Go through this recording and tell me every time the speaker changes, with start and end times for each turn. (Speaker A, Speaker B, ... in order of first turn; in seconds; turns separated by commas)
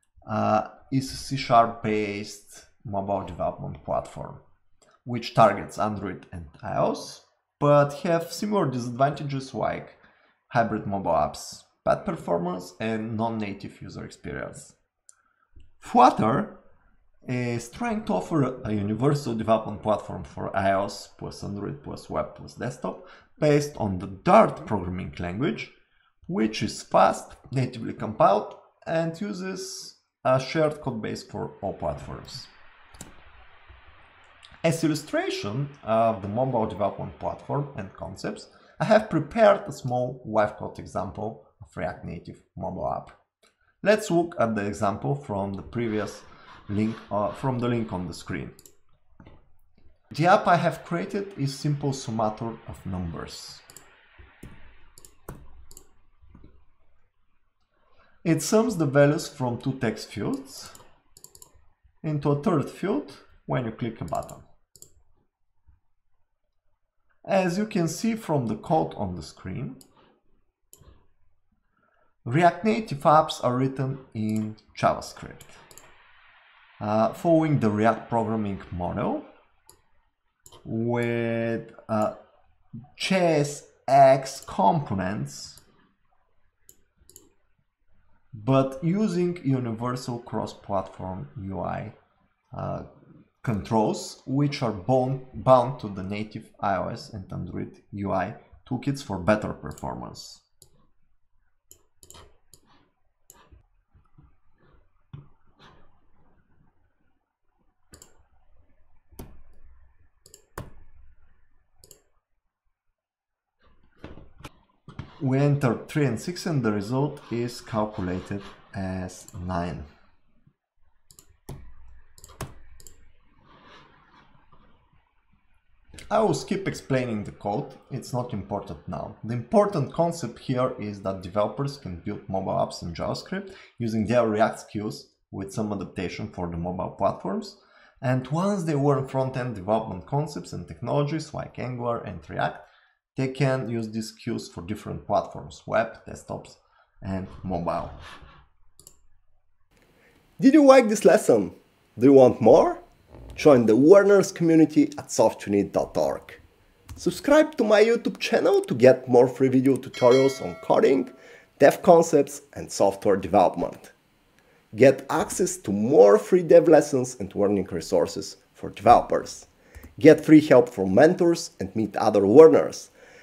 Speaker A: 0.2-4.4, Speaker A: 5.0-14.7, Speaker A: 15.8-16.6, Speaker A: 17.2-25.7, Speaker A: 26.3-32.5, Speaker A: 34.6-43.1, Speaker A: 43.8-48.5, Speaker A: 50.1-53.6, Speaker A: 58.2-60.8, Speaker A: 62.0-64.5, Speaker A: 67.2-69.8, Speaker A: 72.2-75.6, Speaker A: 76.8-79.2, Speaker A: 80.6-82.1, Speaker A: 83.0-85.6, Speaker A: 88.3-91.9, Speaker A: 92.5-92.8, Speaker A: 93.4-100.4, Speaker A: 115.2-119.9, Speaker A: 126.1-147.9, Speaker B: 150.4-152.8, Speaker B: 153.3-156.4, Speaker B: 157.0-161.1, Speaker B: 161.6-163.9, Speaker A: 162.4-163.6, Speaker B: 164.7-169.5, Speaker A: 167.2-167.5, Speaker A: 168.3-169.4, Speaker B: 170.0-172.9, Speaker A: 171.2-171.8